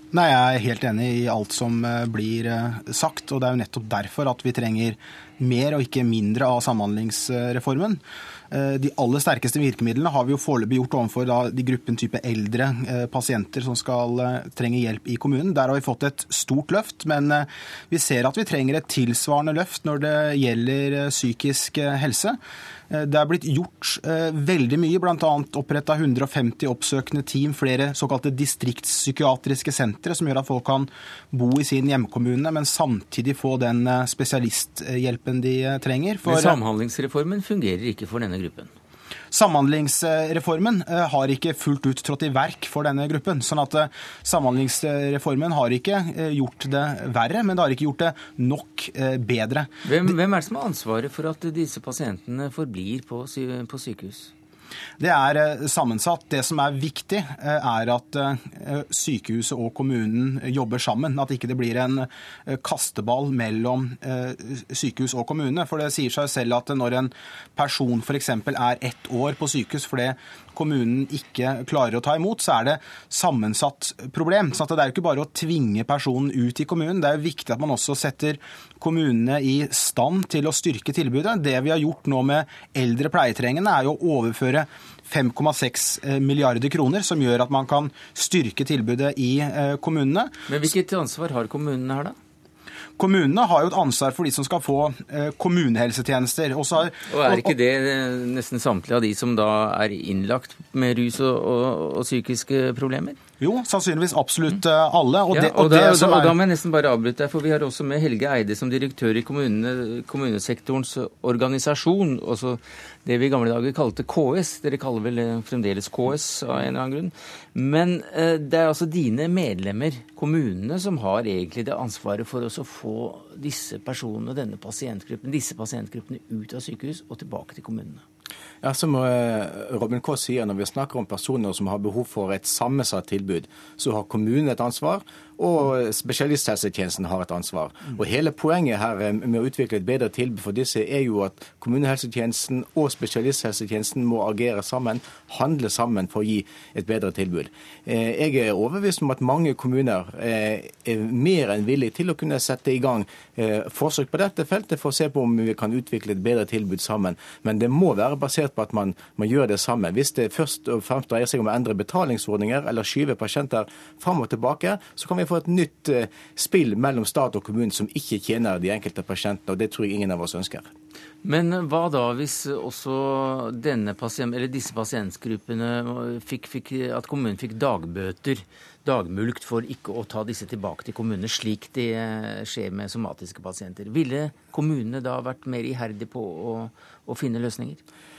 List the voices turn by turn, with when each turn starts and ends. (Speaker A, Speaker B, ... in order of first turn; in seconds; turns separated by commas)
Speaker A: 0.1-22.4, Speaker A: 22.9-36.6, Speaker B: 36.2-38.7, Speaker A: 39.3-49.7, Speaker B: 49.8-54.3, Speaker A: 55.0-90.3, Speaker B: 90.5-92.2, Speaker A: 93.0-97.5, Speaker B: 97.1-103.2, Speaker A: 103.4-106.3, Speaker B: 105.3-128.0, Speaker C: 128.6-170.7, Speaker B: 171.2-187.8